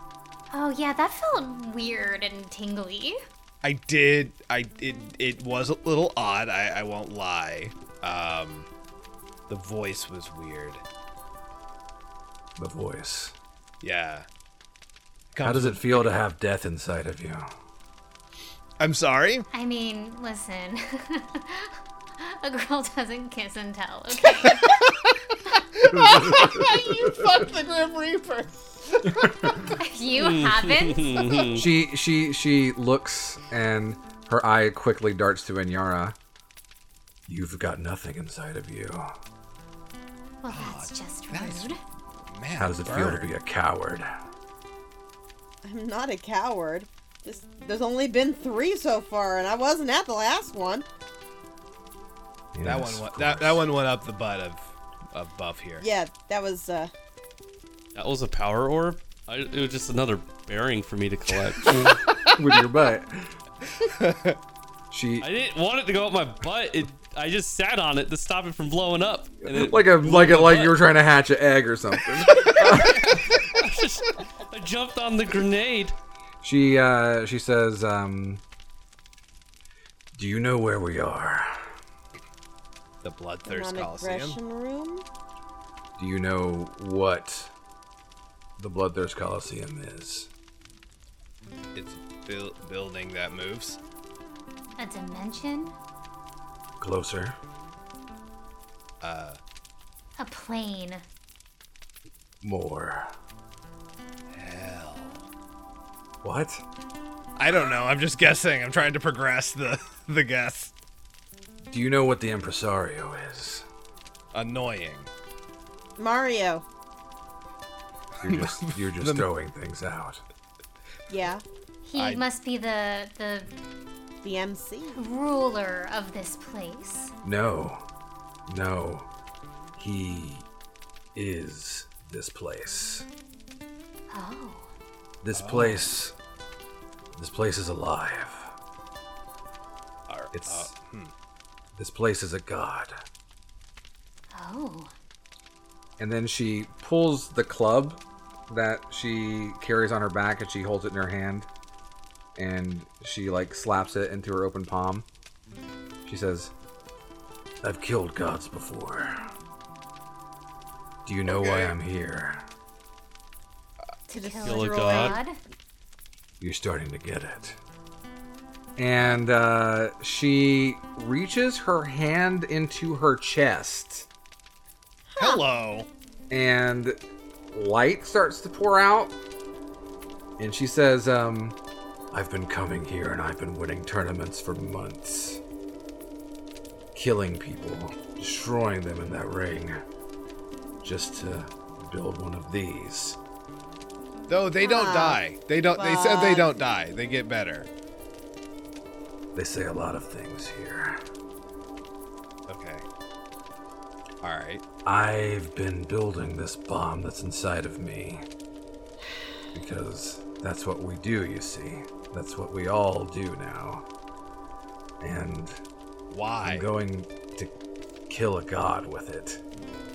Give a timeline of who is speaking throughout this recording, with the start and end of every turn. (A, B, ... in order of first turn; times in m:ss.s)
0:00.5-0:03.2 A
0:03.6-0:08.7 B
0:09.5-0:10.8 B
0:12.6-0:13.3 C
0:13.8-0:14.2 B
0:15.3-0:16.1 B
0:15.4-0:17.4 C
0:18.8-0:19.5 B
0:19.5-0:24.8 A
0:24.4-0:29.6 B
0:26.1-0:26.4 C
0:29.2-0:29.5 C
0:29.7-0:31.6 A
0:30.1-0:31.7 D
0:31.6-0:36.2 C
0:37.3-0:39.0 C
0:40.4-0:41.8 A
0:40.5-0:41.8 B
0:42.3-0:43.3 B
0:42.6-0:44.0 C
0:45.6-0:50.8 E
0:52.6-0:53.6 C
0:52.6-0:55.8 B
0:55.8-0:56.9 E
0:57.9-1:01.9 D
1:01.6-1:02.4 B
1:01.7-1:03.3 C
1:03.8-1:04.4 B
1:04.9-1:05.2 C
1:05.2-1:10.8 D
1:09.5-1:13.3 C
1:12.2-1:12.8 B
1:12.5-1:16.0 D
1:16.4-1:18.4 C
1:20.1-1:21.5 C
1:23.0-1:24.4 B
1:23.4-1:25.0 E
1:26.0-1:27.5 C
1:28.6-1:30.3 C
1:31.7-1:33.8 B
1:34.8-1:35.7 A
1:36.8-1:37.3 C
1:39.0-1:39.4 B
1:40.2-1:41.0 A
1:42.4-1:43.1 C
1:44.3-1:45.2 B
1:46.2-1:46.6 C
1:47.4-1:50.8 B
1:51.7-1:53.6 C
1:54.3-1:55.1 B
1:56.0-1:56.6 E
1:58.2-2:00.2 C
1:58.2-1:59.3 B
2:01.1-2:01.4 E
2:01.8-2:03.5 A
2:02.0-2:02.2 B
2:04.2-2:05.0 E
2:04.9-2:07.1 A
2:07.2-2:07.8 C
2:08.5-2:09.1 C
2:09.8-2:10.4 C
2:11.1-2:13.0 C
2:14.1-2:14.7 A
2:15.2-2:16.1 C
2:15.3-2:15.9 B
2:17.2-2:18.5 C
2:20.1-2:21.1 B
2:20.4-2:20.6 C
2:21.8-2:22.9 C
2:24.3-2:24.9 A
2:26.0-2:31.5 C
2:32.4-2:35.0 C
2:36.0-2:36.5 C
2:37.6-2:39.1 C
2:41.0-2:42.4 C
2:41.2-2:41.7 B
2:44.1-2:45.4 A
2:44.1-2:45.2 E
2:44.4-2:45.2 D
2:46.4-2:47.5 C
2:48.8-2:54.1 C
2:55.1-2:55.4 E
2:55.2-2:55.9 B
2:56.3-2:56.9 C
2:57.5-2:59.1 C
3:00.4-3:01.6 C
3:02.1-3:05.4 C
3:06.9-3:09.7 C
3:10.8-3:13.2 C
3:14.3-3:17.7 B
3:14.6-3:15.2 E
3:15.7-3:16.6 E
3:19.4-3:20.9 C
3:22.5-3:22.8 B
3:24.2-3:24.6 B
3:24.8-3:28.2 C
3:29.5-3:33.8 C
3:35.0-3:35.5 C
3:36.1-3:36.7 B
3:36.5-3:37.5 C
3:38.1-3:39.4 C